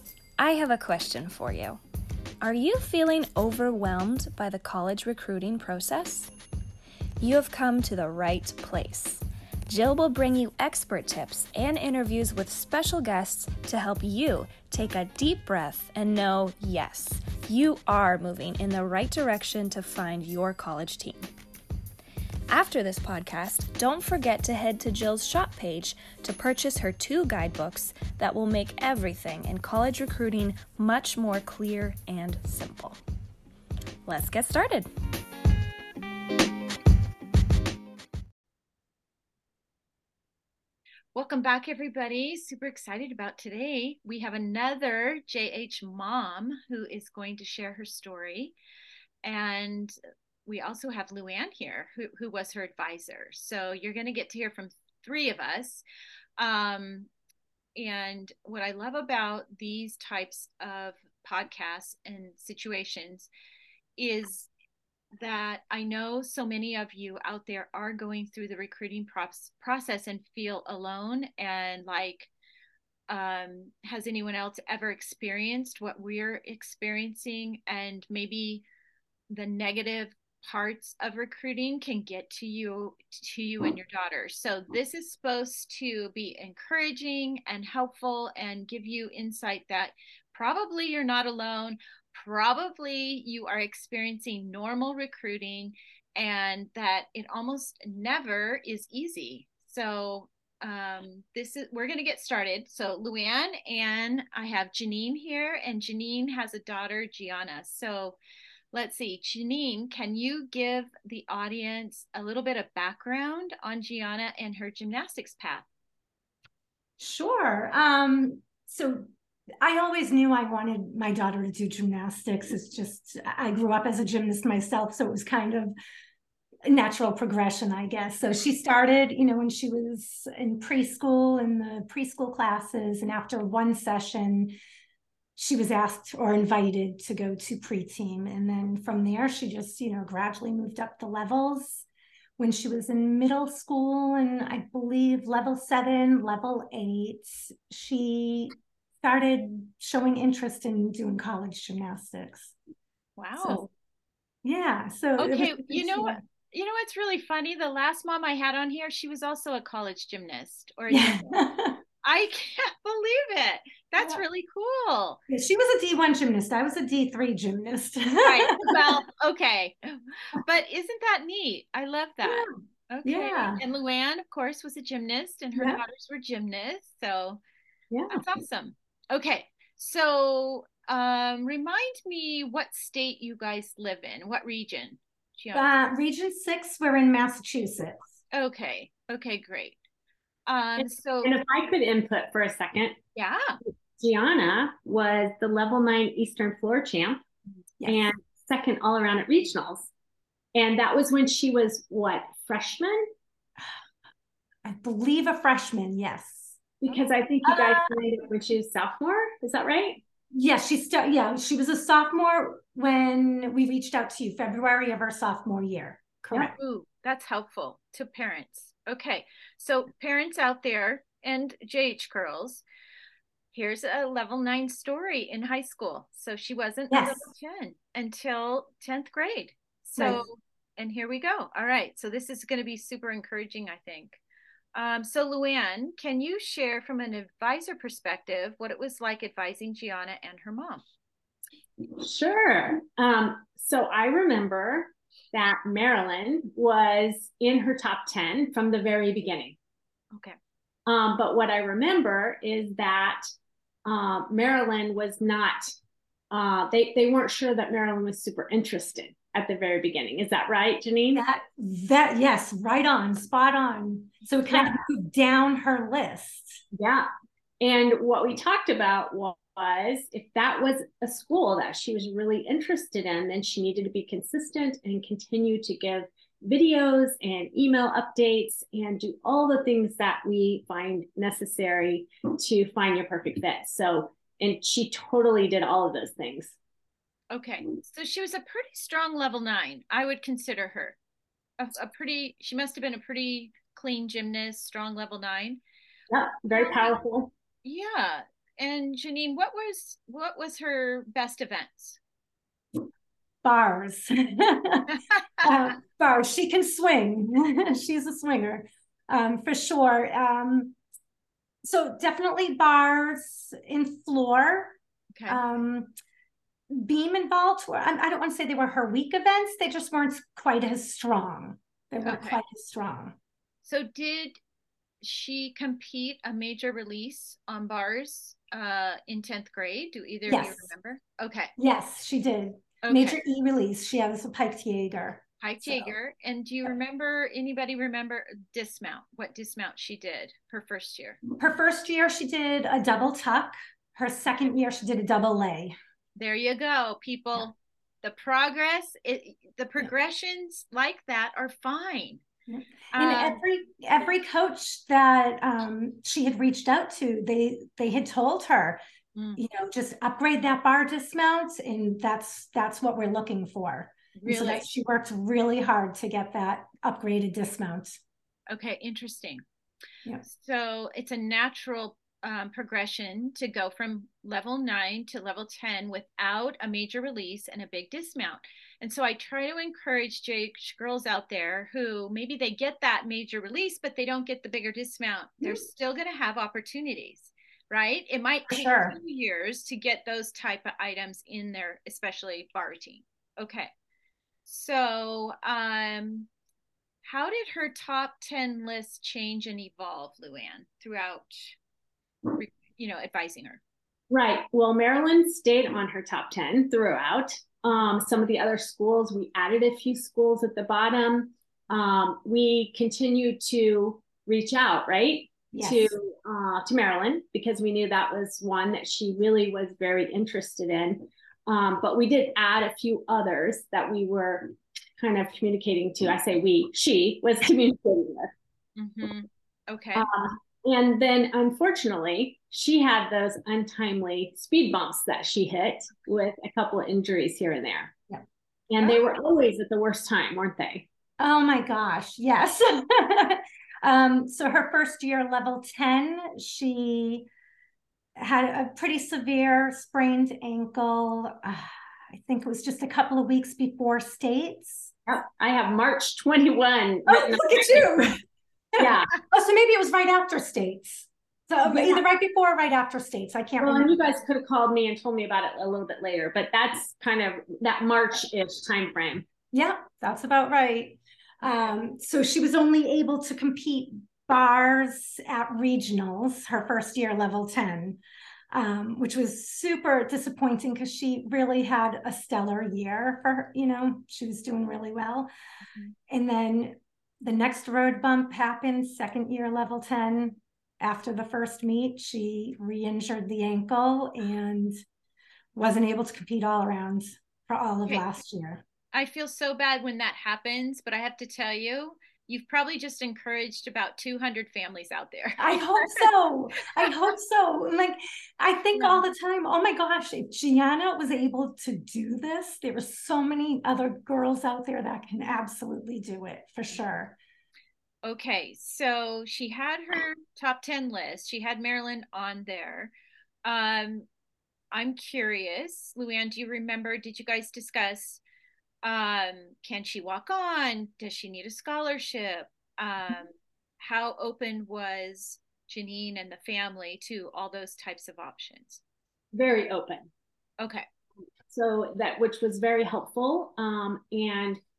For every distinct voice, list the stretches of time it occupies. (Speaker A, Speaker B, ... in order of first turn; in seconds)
Speaker A: 0.4-1.8, 2.4-6.3, 7.2-21.3, 22.5-33.0, 34.0-34.9
Speaker B: 41.1-48.5, 49.2-49.9, 50.5-55.8, 56.4-57.1, 57.8-63.3, 64.0-64.5, 65.2-72.3, 73.1-78.6, 79.3-108.2, 108.7-115.6, 153.2-153.7, 155.2-161.4, 162.0-165.2, 168.2-177.4, 178.1-185.8, 188.3-189.8, 190.5-191.4, 193.1-193.5, 216.6-222.6, 223.5-234.2, 234.7-240.8, 287.3-291.0, 291.6-295.6, 296.5-296.9, 297.6-302.0, 315.1-315.4, 322.0-322.4, 323.6-324.4, 325.0-331.5, 332.8-333.2, 335.4-341.2, 346.1-352.2, 352.9-353.4, 359.1-359.4, 364.2-364.7, 368.5-369.4, 370.2-393.7, 394.4-396.3, 397.0-401.6, 402.4-403.6, 428.8-430.1, 498.9-506.1, 508.7-509.0, 518.0-522.9, 523.4-524.1, 524.7-528.2, 528.8-538.8, 540.6-540.8
Speaker C: 117.0-119.1, 119.6-125.7, 126.7-134.5, 135.3-141.8, 142.4-152.5, 153.4-153.6, 154.4-156.2, 160.9-161.8, 163.9-164.2, 165.3-169.0, 172.2-172.5, 173.0-173.6, 175.5-175.8, 177.9-178.2, 185.5-188.0, 197.8-198.1, 204.6-206.6, 207.4-207.9, 210.3-216.6, 226.9-227.3, 230.0-230.2, 261.1-266.6, 303.4-310.8, 311.6-314.8, 315.3-315.9, 316.7-323.1, 330.3-330.7, 331.6-335.9, 341.3-345.7, 352.5-358.8, 359.4-368.0, 388.5-389.0, 415.5-415.9, 441.2-447.3, 448.1-454.9, 457.1-458.2, 458.7-464.0, 469.5-478.0, 478.5-485.3, 486.1-494.7, 495.5-498.6, 505.4-517.2
Speaker D: 190.8-193.0, 194.0-197.2, 197.8-199.9, 200.5-203.1, 206.8-210.0, 241.8-249.6, 250.8-253.2, 253.8-255.7, 256.3-261.2, 266.7-267.1, 267.6-286.6, 296.1-297.3, 404.1-428.3, 429.9-437.9, 438.7-440.9, 455.1-457.9, 458.8-459.1, 461.6-462.0, 463.6-469.3, 539.3-540.1, 541.5-544.6